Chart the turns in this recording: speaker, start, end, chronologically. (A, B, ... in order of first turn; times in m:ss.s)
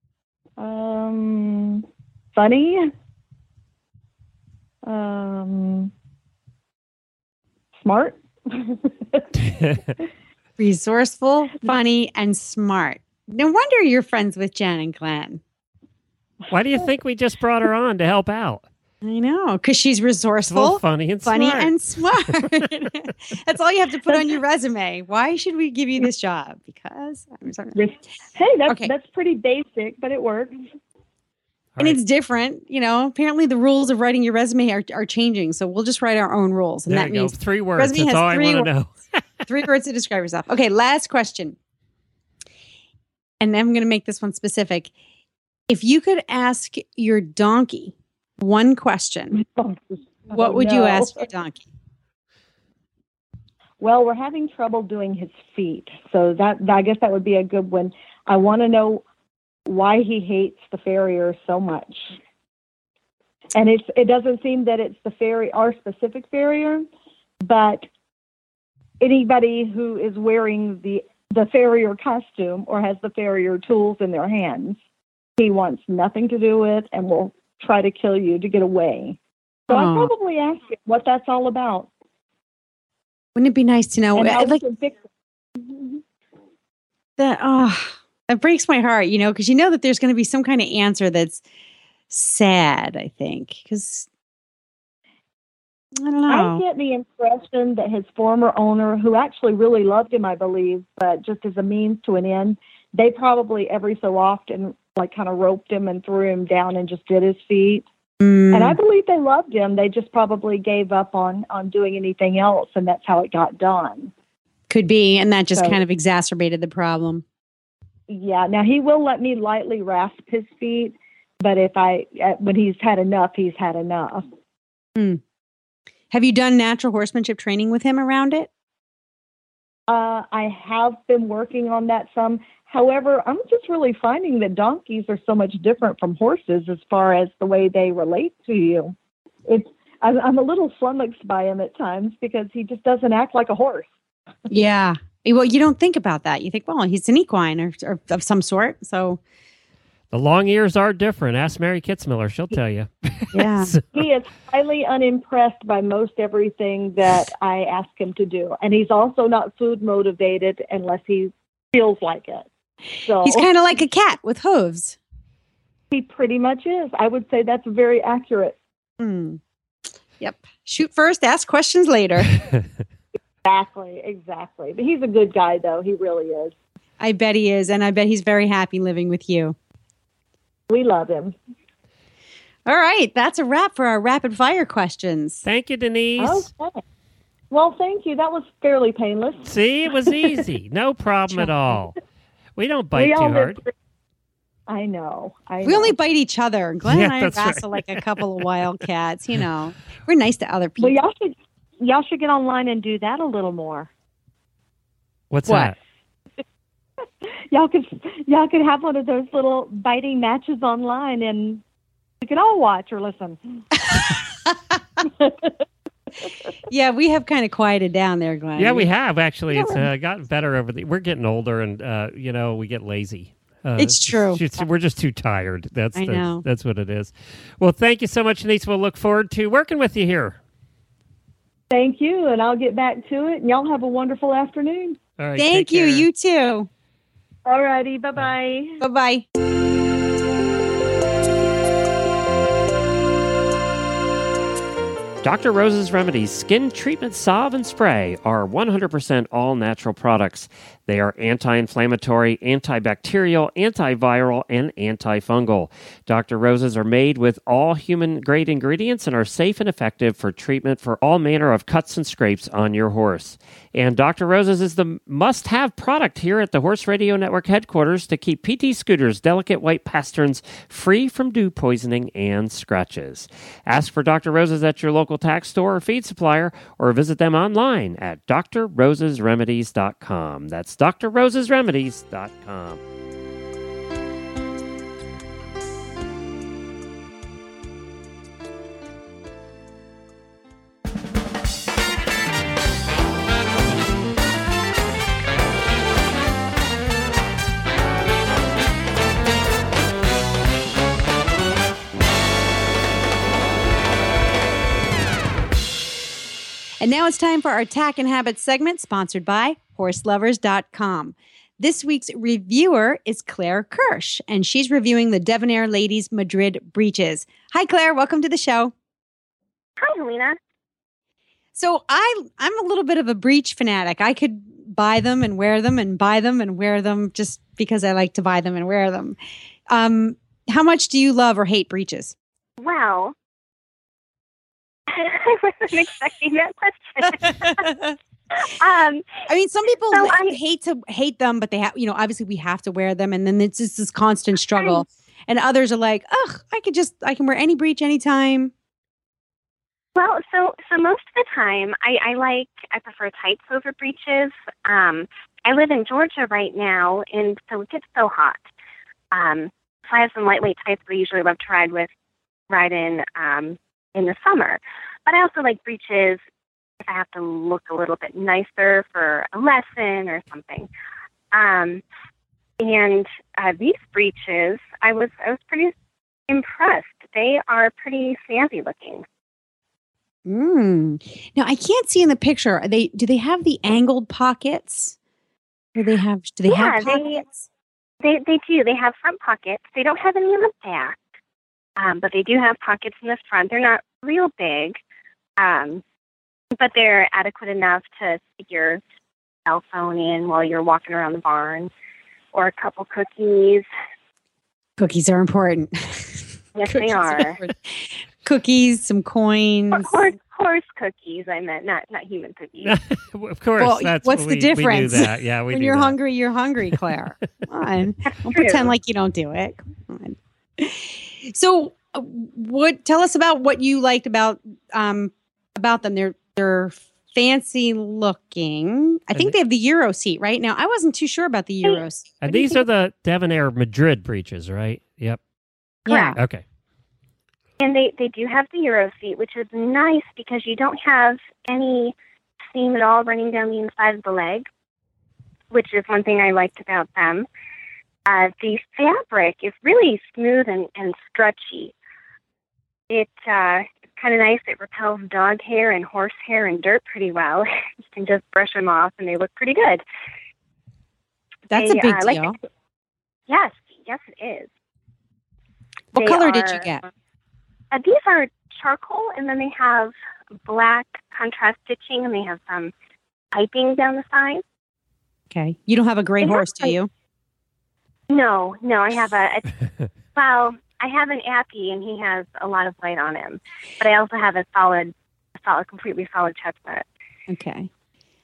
0:00.6-0:02.9 A
0:04.8-0:05.9 A
0:07.8-0:09.3 A
0:09.5-0:09.9 B
0:10.6-0:15.4 C
0:16.5-0:18.6 B
0:19.0-0:27.8 C
0:20.5-0:21.8 B
0:27.8-0:30.6 A
0:31.8-0:38.7 C
0:36.9-0:38.9 B
0:39.5-0:41.6 C
0:43.4-0:44.9 C
0:45.7-0:49.4 C
0:49.4-0:51.3 A
0:50.3-0:51.6 C
0:53.8-0:59.0 A
0:59.6-1:02.2 A
1:03.5-1:06.9 A
1:07.4-1:07.9 A
1:09.0-1:14.8 A
1:15.4-1:19.2 A
1:19.7-1:21.9 A
1:19.7-1:20.1 C
1:23.3-1:24.6 C
1:24.1-1:25.0 A
1:25.6-1:26.0 A
1:27.2-1:31.4 C
1:32.1-1:34.1 C
1:36.0-1:36.6 C
1:36.3-1:47.8 A
1:48.2-1:48.8 C
1:48.5-1:54.1 A
1:54.7-1:57.2 C
1:55.5-1:55.8 A
1:58.1-2:04.3 A
2:05.0-2:05.2 C
2:06.1-2:08.5 C
2:09.9-2:18.9 A
2:19.4-2:23.9 A
2:24.5-2:29.2 C
2:30.1-2:33.9 B
2:33.3-2:33.7 C
2:33.9-2:42.5 A
2:43.0-2:43.5 A
2:43.2-2:45.0 C
2:45.9-2:48.6 A
2:49.0-2:49.4 C
2:50.2-2:52.4 C
2:53.4-2:56.5 A
2:57.0-2:59.6 C
3:00.7-3:01.4 A
3:02.6-3:05.4 C
3:05.4-3:06.5 B
3:06.2-3:06.8 A
3:07.5-3:09.5 A
3:09.4-3:12.0 B
3:12.6-3:13.6 B
3:12.9-3:13.7 A
3:14.7-3:15.9 A
3:15.6-3:21.0 C
3:16.8-3:18.2 B
3:20.8-3:23.9 A
3:25.3-3:25.8 B
3:25.5-3:25.7 C
3:27.5-3:31.6 A
3:32.2-3:33.4 A
3:35.0-3:35.6 A
3:36.7-3:38.9 C
3:38.6-3:50.4 B
3:43.8-3:44.4 C
3:45.9-3:46.4 C
3:51.7-3:55.0 A
3:55.2-3:56.1 B
3:55.4-3:56.7 C
3:57.4-3:58.8 A
3:58.8-3:59.2 C
4:05.2-4:42.8 B
5:06.8-5:18.7 C
5:19.8-5:20.4 D
5:21.6-5:29.2 C
5:29.7-5:32.1 C
5:32.6-5:33.1 D
5:34.9-5:37.7 D
5:37.2-5:37.9 C
5:38.4-5:39.1 D
5:39.3-5:48.5 C
5:39.9-5:40.4 D
5:49.9-5:58.4 D
5:59.1-6:01.9 D
6:02.5-6:06.2 D
6:06.8-6:10.7 D
6:11.3-6:11.8 D
6:12.6-6:15.7 D
6:16.3-6:19.0 D
6:20.2-6:25.0 C
6:25.7-6:27.4 C
6:26.4-6:27.2 D
6:28.0-6:31.0 D
6:31.8-6:34.8 D
6:35.4-6:35.8 D
6:36.5-6:38.8 D
6:39.4-6:41.7 D
6:42.3-6:43.6 D
6:44.8-6:50.0 C
6:46.5-6:47.4 D
6:49.7-6:52.8 D
6:52.6-6:56.0 B
6:53.6-7:12.6 C
6:58.1-6:58.7 D
7:12.2-7:15.2 B
7:15.9-7:16.2 D
7:15.9-7:16.2 C
7:16.2-7:16.4 B
7:17.6-7:21.9 D
7:22.5-7:24.4 D
7:25.5-7:27.2 D
7:28.1-7:31.7 D
7:32.9-7:39.8 D
7:41.5-7:42.4 C
7:41.5-7:42.3 D
7:43.3-7:44.5 D
7:45.9-7:46.8 C
7:46.0-7:46.7 D
7:47.7-7:49.9 D
7:50.4-7:52.7 D
7:53.3-7:54.4 D
7:55.3-7:56.9 C
7:56.2-7:56.7 D
7:58.1-7:59.5 D
8:00.1-8:06.8 D
8:07.3-8:07.7 C